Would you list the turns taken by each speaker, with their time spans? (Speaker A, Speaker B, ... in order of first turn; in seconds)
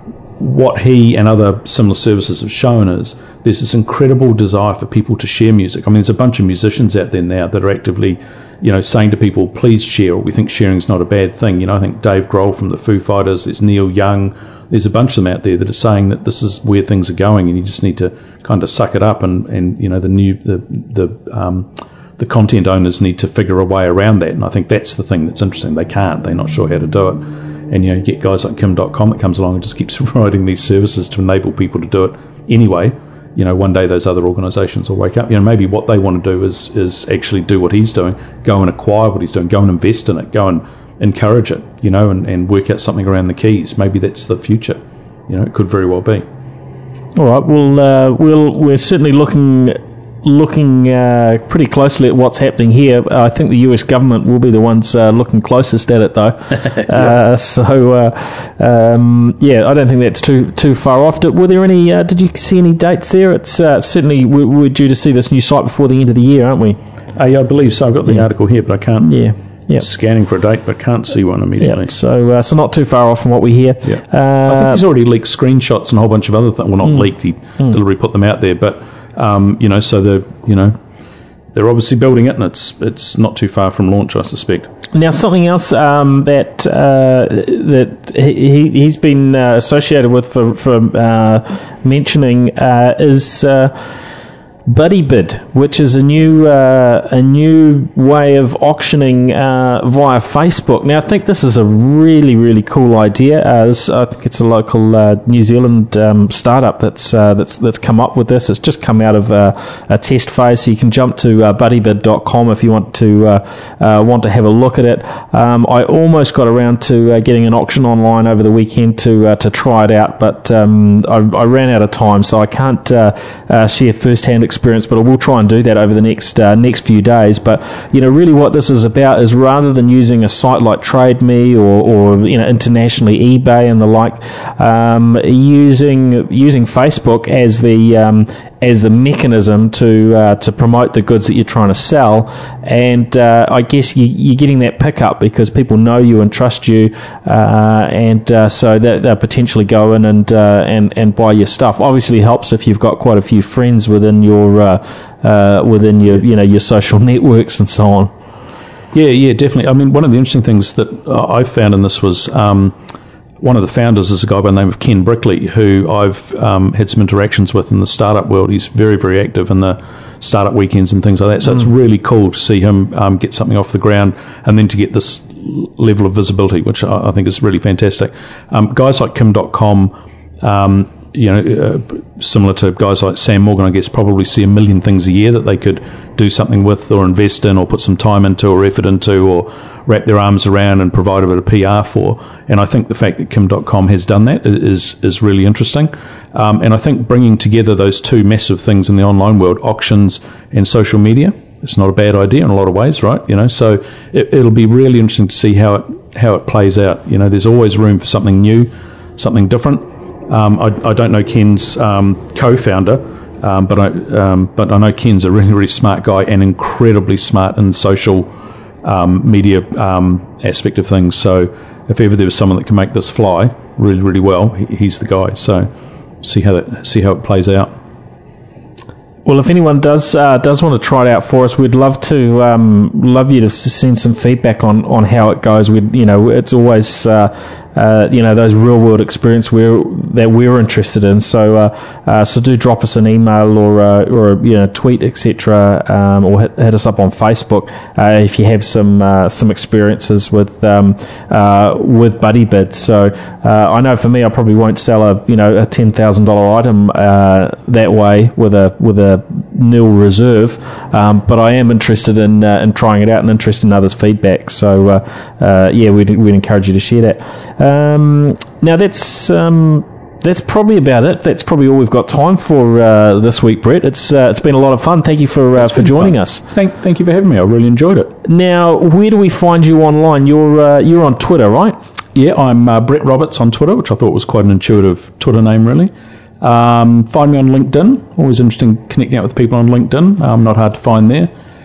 Speaker A: 0.4-46.2, 56.9-57.2, 67.2-69.2, 69.8-71.9, 73.8-80.8, 81.5-84.7, 158.9-162.8, 163.4-218.3, 218.8-225.7, 226.2-227.7, 275.6-278.1, 282.1-291.3
Speaker B: 47.1-66.8, 69.1-69.8, 71.6-74.8, 84.9-93.7, 94.7-158.1, 229.2-276.4, 278.2-281.8